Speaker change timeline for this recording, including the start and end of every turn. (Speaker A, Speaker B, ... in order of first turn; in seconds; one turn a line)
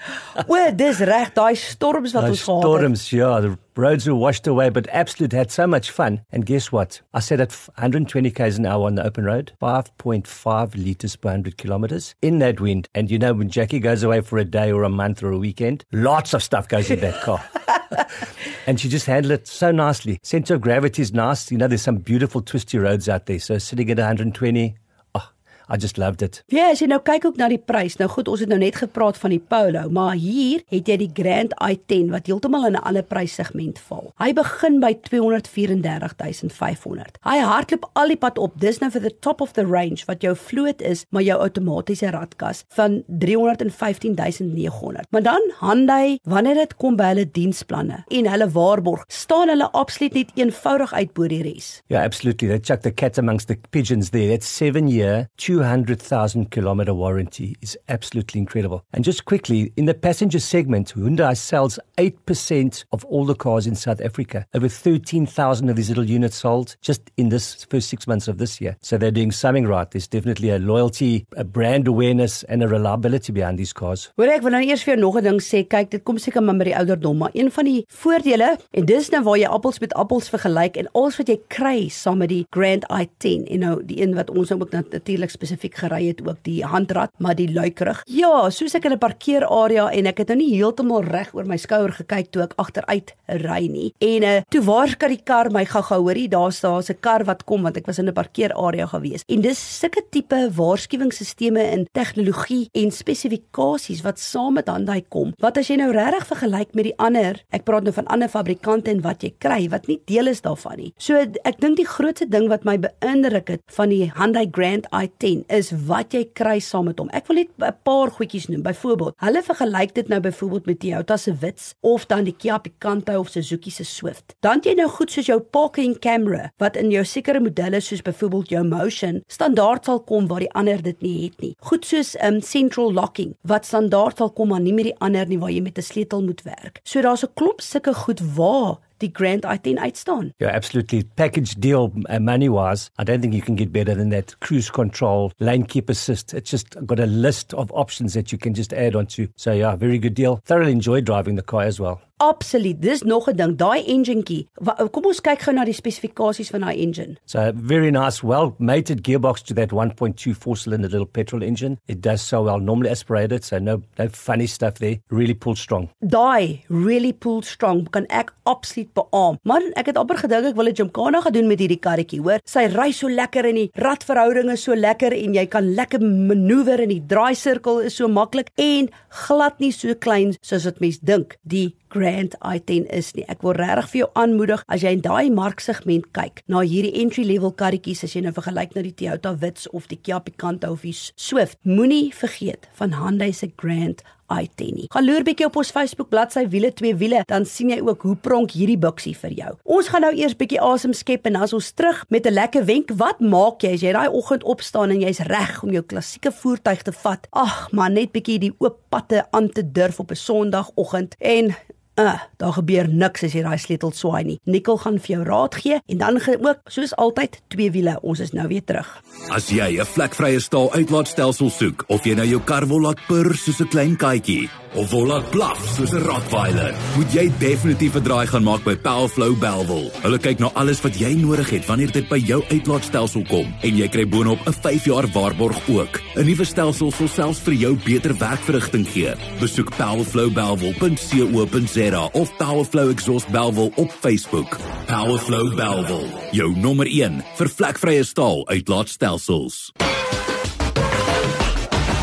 Speaker A: 0.4-2.9
Speaker B: 2.2-18.1
Speaker B: 18.6-26.4
Speaker A: 26.5-51.8
Speaker B: 51.9-74.1
Speaker A: 74.2-140.3
Speaker B: 140.4-152.0
Speaker A: 152.2-157.2
Speaker B: 157.3-165.9
Speaker A: 166.0-219.0
Speaker C: 219.3-249.7